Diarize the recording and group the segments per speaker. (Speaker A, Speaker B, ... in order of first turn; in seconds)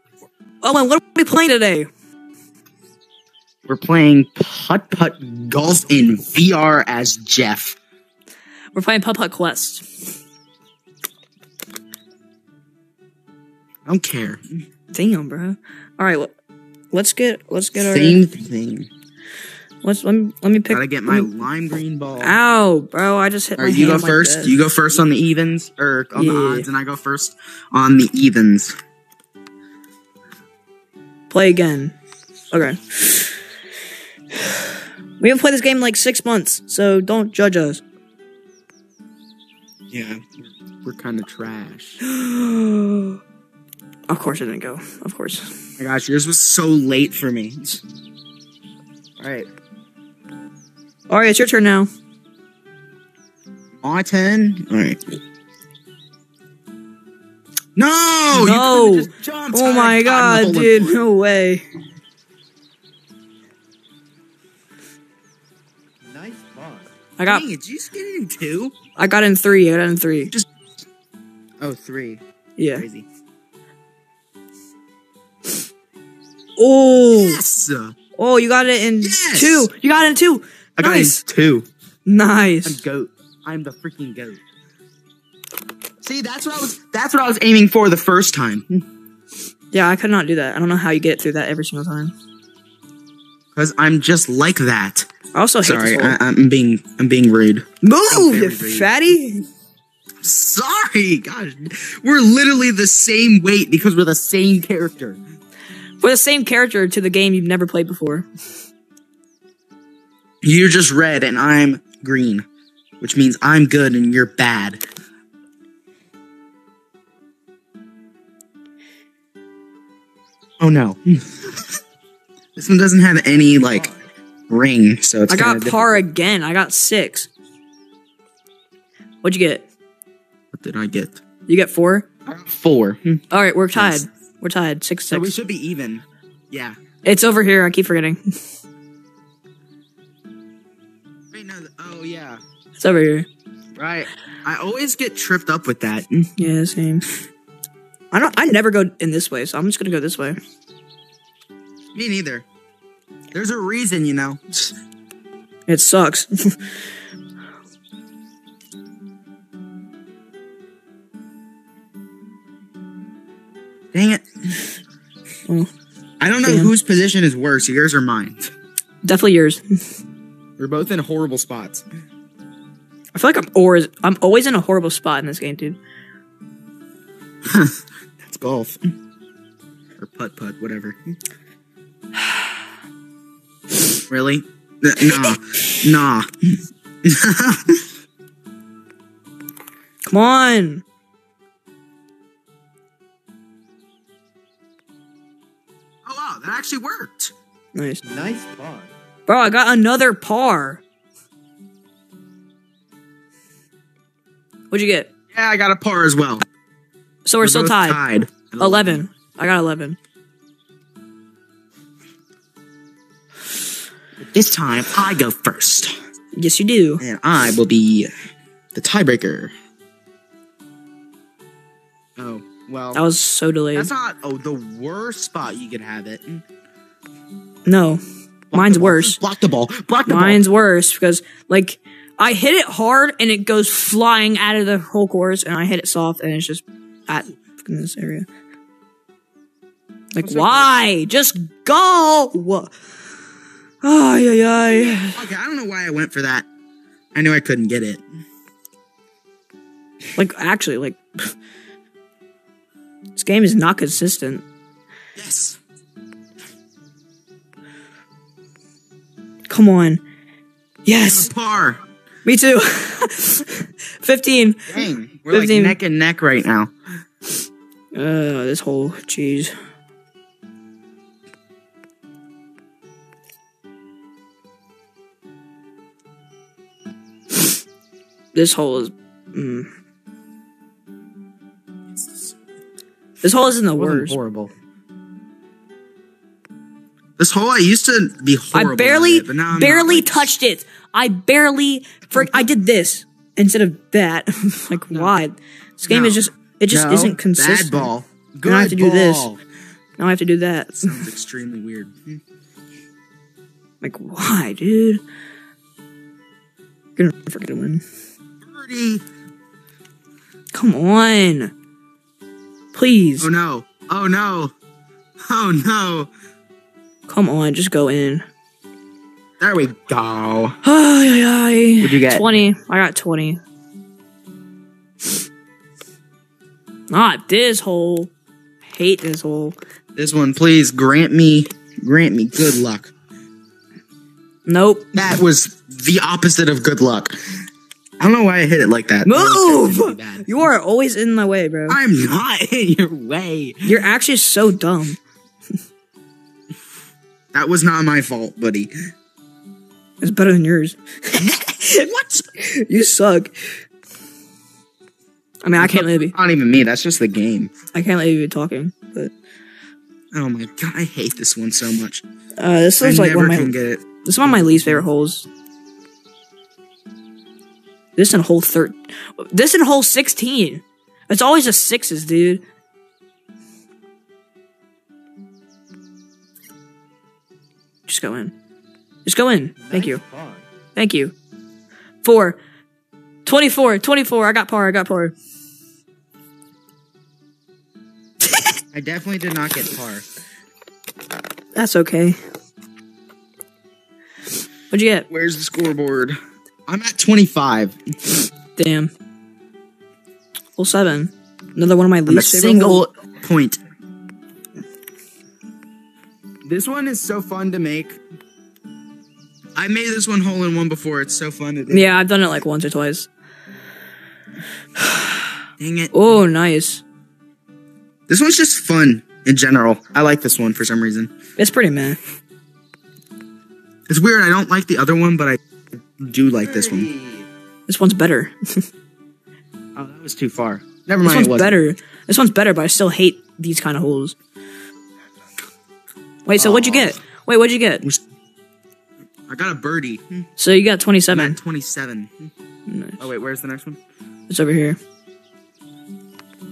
Speaker A: 0.6-1.9, 8.7-9.8, 14.9-16.3, 16.9-18.2, 19.8-21.3, 22.2-24.6, 26.1-26.7, 31.3-31.9, 32.5-33.3, 34.4-37.8, 42.0-43.2, 44.1-45.5, 51.1-51.9, 58.3-61.6, 67.2-67.4, 69.0-70.3, 72.6-72.8, 76.6-77.4, 78.2-81.2, 82.0-82.8, 89.7-92.1, 95.3-96.2, 97.8-99.5, 106.0-108.2, 125.3-127.3, 129.2-129.7, 131.5-132.1, 133.3-135.3, 137.0-138.2, 142.8-143.3, 146.4-147.1, 148.1-150.4, 155.7-156.6, 166.4-166.7, 169.0-169.8, 173.1-175.8, 190.1-190.8, 197.7-198.0, 199.3-200.8, 204.7-205.1, 207.2-208.0, 208.6-210.0, 216.3-217.0, 222.9-223.9, 227.7-228.0, 228.5-229.2, 230.1-238.3, 240.1-242.7, 243.8-245.2, 250.2-251.3, 253.2-254.4, 259.5-260.0, 260.9-261.3, 262.2-264.8, 265.3-265.8, 267.9-269.5, 278.3-279.7, 283.2-284.2, 288.5-297.9, 298.4-299.3, 300.0-301.0, 303.8-305.0, 307.0-307.8, 310.5-311.5, 312.7-313.3, 317.1-318.2, 320.6-323.4, 326.9-328.1, 328.7-329.6, 334.4-334.9, 339.0-341.8, 343.6-345.0, 350.0-353.5, 355.4-356.1, 357.7-359.1, 362.4-363.5, 364.0-365.3, 368.0-372.4, 377.9-378.3, 379.0-380.0, 380.8-381.1, 382.0-382.4, 383.2-385.1, 391.6-392.2, 394.7-395.1, 398.6-398.9, 400.6-402.8, 411.7-413.1, 414.8-415.3, 415.9-416.8, 421.4-422.0, 427.7-428.6, 431.0-434.1, 436.2-437.8, 440.4-441.4, 442.7-443.0, 444.3-444.8
Speaker B: 3.6-7.8, 13.8-14.6, 17.9-18.9, 20.7-22.4, 23.6-28.7, 39.9-42.0, 45.8-47.8, 49.2-49.5, 53.8-55.0, 57.8-61.0, 67.2-68.8, 71.6-73.0, 77.1-78.0, 79.0-79.7, 80.8-81.7, 82.6-84.4, 86.0-88.8, 93.5-95.1, 95.6-98.9, 100.2-105.2, 110.4-112.5, 113.0-114.8, 120.6-121.5, 122.5-123.9, 124.5-126.0, 130.5-131.2, 132.2-133.2, 133.7-134.0, 135.1-136.8, 141.3-142.4, 143.8-146.3, 151.9-152.4, 153.3-154.7, 163.9-164.6, 166.2-168.5, 170.6-171.8, 177.4-178.9, 180.0-181.0, 184.1-187.8, 196.0-197.3, 205.3-206.4, 207.4-209.0, 214.2-215.9, 217.0-218.1, 218.7-219.5, 222.2-223.0, 223.7-226.4, 228.5-230.4, 237.1-237.3, 240.2-240.7, 244.7-246.4, 247.1-248.0, 255.2-255.6, 261.0-261.8, 264.7-266.7, 281.9-282.3, 283.8-284.5, 287.2-290.3, 292.1-292.4, 294.9-295.1, 295.8-299.4, 300.8-302.2, 308.4-309.0, 313.2-314.5, 315.2-316.1, 319.4-320.6, 321.8-322.2, 329.9-332.9, 334.9-337.1, 338.0-340.3, 341.7-343.7, 347.3-348.7, 351.1-352.3, 355.6-357.5, 360.1-362.0, 362.8-364.8, 388.7-390.0, 395.1-397.8, 402.1-403.6, 406.4-408.0, 409.6-411.9, 415.6-415.9, 418.1-421.1, 423.9-425.4, 426.0-426.9, 429.8-431.6, 436.4-436.9, 439.3-440.2, 441.1-442.3, 443.0-443.8
Speaker C: 66.0-66.9, 123.3-124.0, 198.0-198.9, 379.6-380.4, 426.5-427.3